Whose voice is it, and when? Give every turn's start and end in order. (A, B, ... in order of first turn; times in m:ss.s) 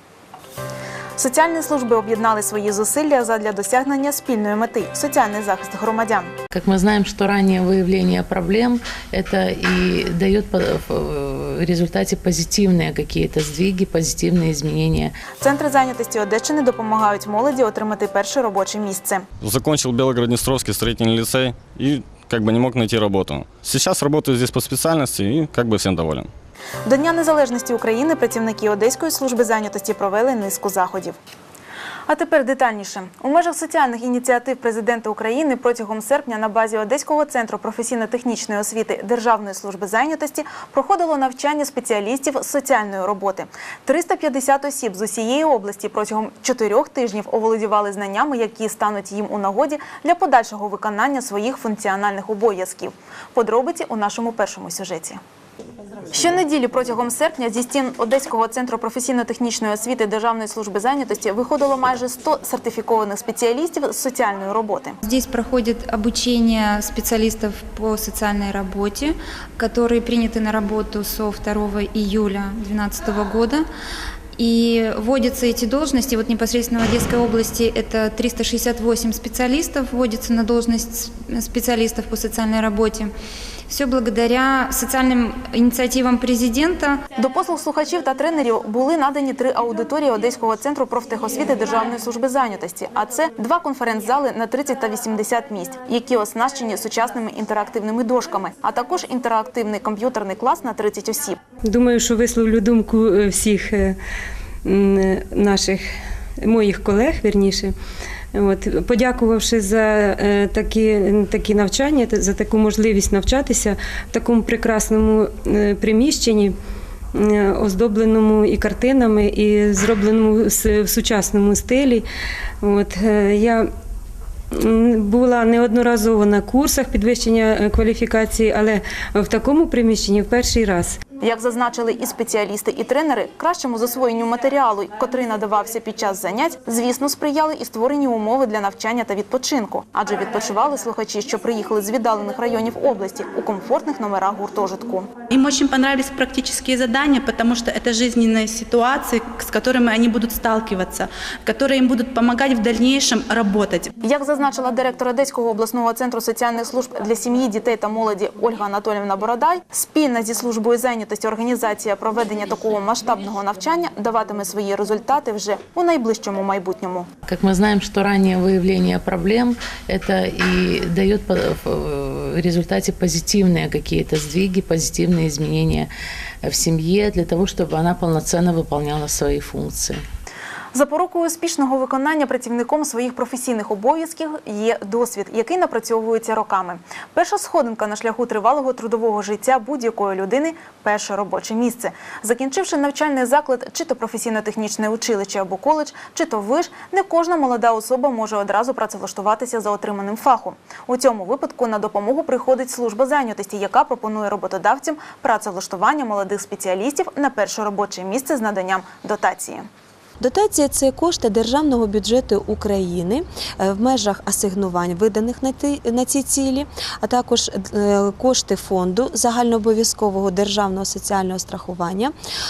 0:01.2-0:06.3 A
0:06.5-0:15.2 B
0:15.4-0:19.2 A
0:19.4-0:26.3 C
0:26.9-0:31.2 A
0:32.1-0:55.2 A
0:56.1-1:05.0 A
1:05.0-1:13.7 D
1:14.4-1:23.1 D
1:23.7-1:27.0 D
1:27.2-1:41.4 A
1:41.6-1:44.0 E
1:44.6-1:45.9 E
1:46.4-1:47.8 E
1:48.3-1:56.6 E
1:57.1-2:02.1 E
2:02.6-2:03.7 E
2:04.5-2:11.0 E
2:11.2-2:25.1 A
2:25.3-2:34.0 F
2:34.0-2:47.1 A
2:47.2-2:55.9 B
2:56.4-3:00.0 B
3:00.7-3:29.7 A
3:30.2-3:42.1 G